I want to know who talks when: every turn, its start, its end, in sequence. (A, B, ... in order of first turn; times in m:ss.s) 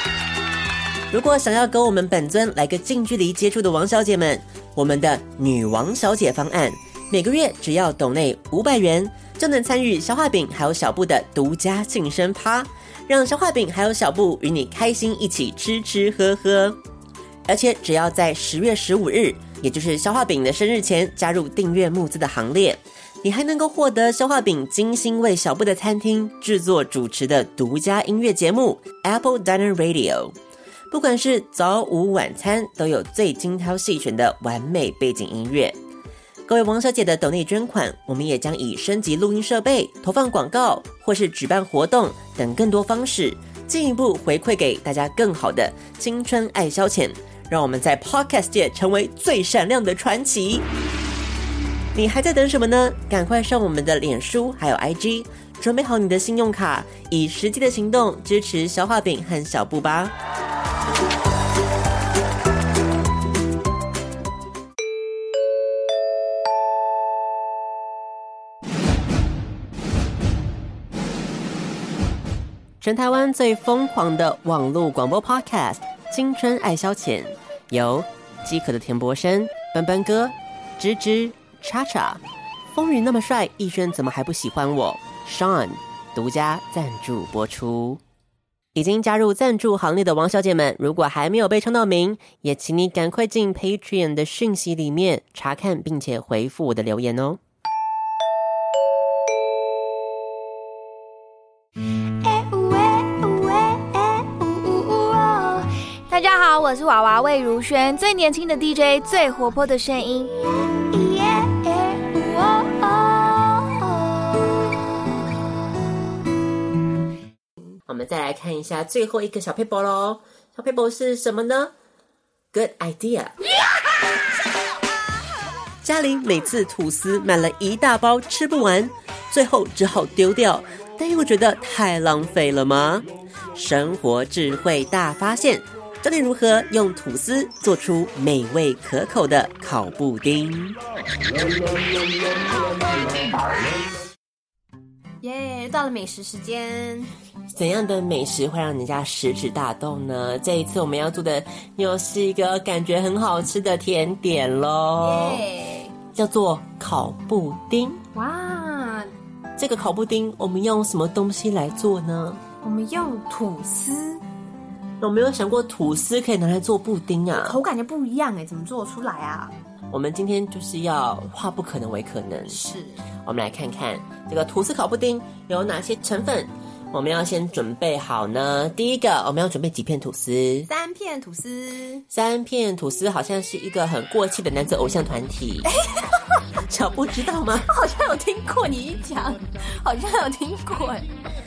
0:01.1-0:16.8 A
0:17.5-0:30.4 A
0:30.9-0:35.8 A
0:36.5-0:50.7 A
0:51.9-1:00.1 A
1:12.8-1:22.2 A
1:22.7-1:28.0 A
1:28.8-1:37.4 A
1:42.2-1:45.7 B
1:46.1-1:50.3 C
1:50.9-1:53.9 B
1:57.9-2:01.7 A
2:02.5-2:03.4 A
2:05.8-2:20.8 A
2:25.2-2:27.1 B
2:27.5-2:35.4 A
2:35.0-2:36.0 B
2:36.1-2:38.0 A
2:38.1-2:39.1 B
2:39.6-2:42.4 A
2:42.6-2:44.2 B
2:45.0-2:47.6 A
2:47.3-2:49.5 B
2:49.9-2:52.6 A
2:52.5-2:53.0 B
2:53.2-3:00.7 A
3:00.7-3:02.0 B
3:02.1-3:05.7 A
3:05.6-3:06.4 B
3:06.7-3:07.7 A
3:07.7-3:11.1 B